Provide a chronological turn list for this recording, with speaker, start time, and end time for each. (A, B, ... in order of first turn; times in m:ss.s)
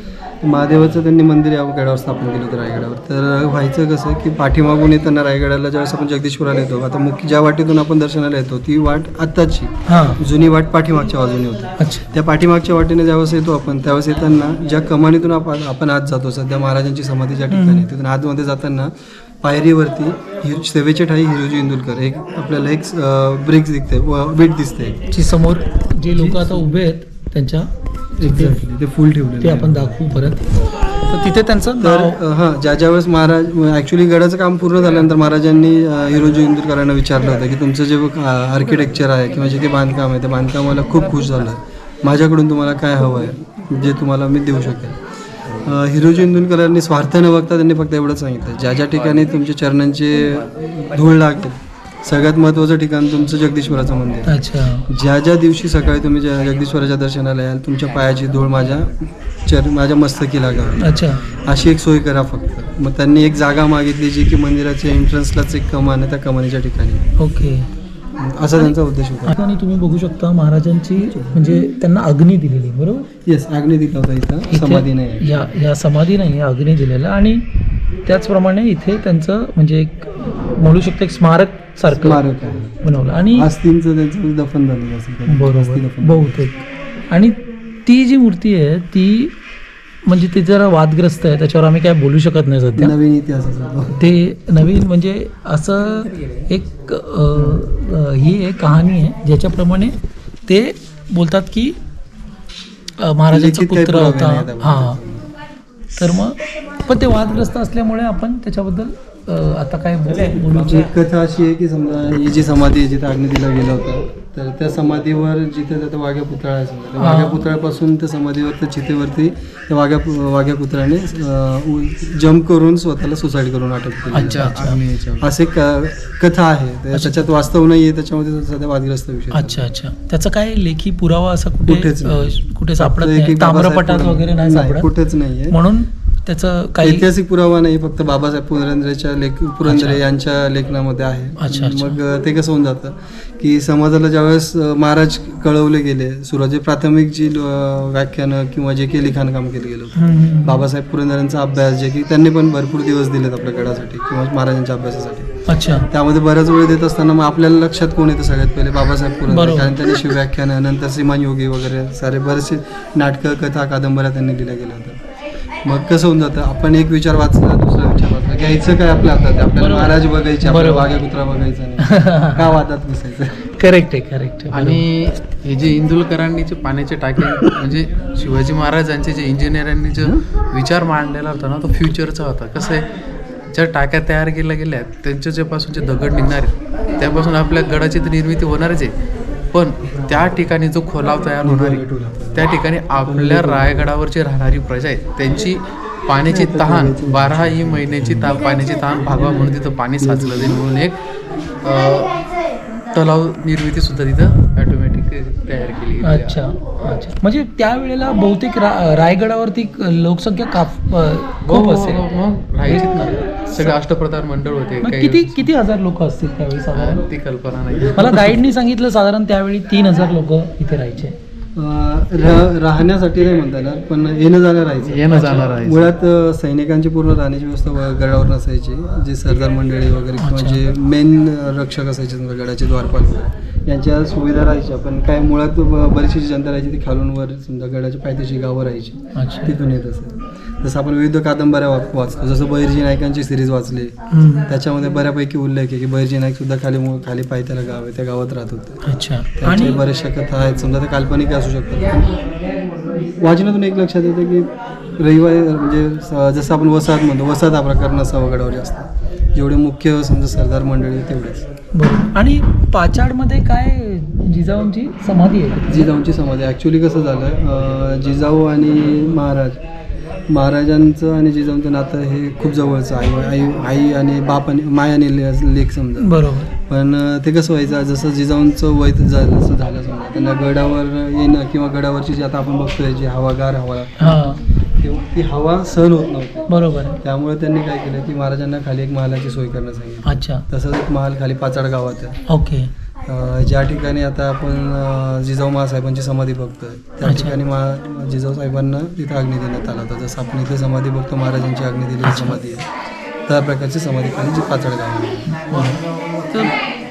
0:00.4-0:18.9 A
0:09.9-0:10.2 B
0:11.8-0:12.1 B
0:17.5-0:17.9 B
0:19.4-0:25.0 A
0:25.1-0:27.7 B
0:26.1-0:26.8 A
0:28.2-0:30.0 A
0:28.2-0:28.6 B
0:29.4-0:32.2 B
0:31.8-0:54.3 A
0:54.3-0:54.9 B
0:54.9-1:07.0 A
1:00.8-1:01.3 B
1:07.2-1:07.7 B
1:08.2-1:09.4 A
1:09.2-1:13.1 B
1:11.0-1:11.6 A
1:13.2-1:15.4 A
1:14.5-1:17.4 B
1:18.0-1:22.2 B
1:21.9-1:22.8 A
1:22.8-1:23.5 B
1:23.3-1:26.4 A
1:25.3-1:29.3 B
1:30.0-1:33.0 B
1:32.8-1:34.0 A
1:33.9-1:39.9 B
1:37.4-1:37.6 A
1:40.5-1:41.8 B
1:43.0-1:45.0 B
1:43.3-1:45.3 A
1:45.9-1:50.9 B
1:50.5-2:09.6 A
1:57.0-1:57.5 B
2:04.1-2:05.3 C
2:04.1-2:04.8 B
2:06.9-2:07.3 B
2:09.3-2:14.9 B
2:11.6-2:15.5 A
2:15.5-2:17.0 B
2:16.8-2:35.3 A
2:19.6-2:20.0 B
2:21.4-2:22.0 B
2:30.0-2:30.6 B
2:35.5-2:35.9 B
2:35.9-2:45.0 A
2:39.3-2:39.7 B
2:45.6-2:53.3 A
2:49.6-2:51.0 B
2:51.8-2:52.6 B
2:53.5-2:54.8 B
2:54.5-3:02.9 C
3:03.5-3:08.9 C
3:09.5-3:21.0 C
3:11.4-3:12.5 A
3:13.0-3:13.9 A
3:16.2-3:18.4 A
3:20.0-3:20.7 A
3:21.6-3:22.2 C
3:22.9-3:26.4 C
3:26.0-3:32.0 B
3:31.4-3:35.5 C
3:32.6-3:33.8 B
3:34.8-3:37.1 B
3:36.7-3:38.4 C
3:37.9-3:41.2 B
3:41.6-4:03.9 A
3:44.9-3:45.9 C
3:50.2-3:50.6 B
3:59.1-3:59.6 B
4:04.1-4:04.5 B
4:04.5-4:08.8 A
4:08.8-4:09.8 B
4:09.4-4:12.1 A
4:13.1-4:21.4 A
4:21.7-4:25.9 B
4:25.7-4:29.6 A
4:30.3-4:46.5 A
4:36.0-4:36.5 B
4:44.0-4:44.4 B
4:46.5-4:47.0 B
4:47.0-4:52.2 A
4:50.0-4:50.4 B
4:52.3-4:52.7 B
4:53.0-5:02.7 A
4:57.0-4:57.4 B
5:02.0-5:02.4 B
5:03.2-5:05.3 A
5:05.3-5:06.5 B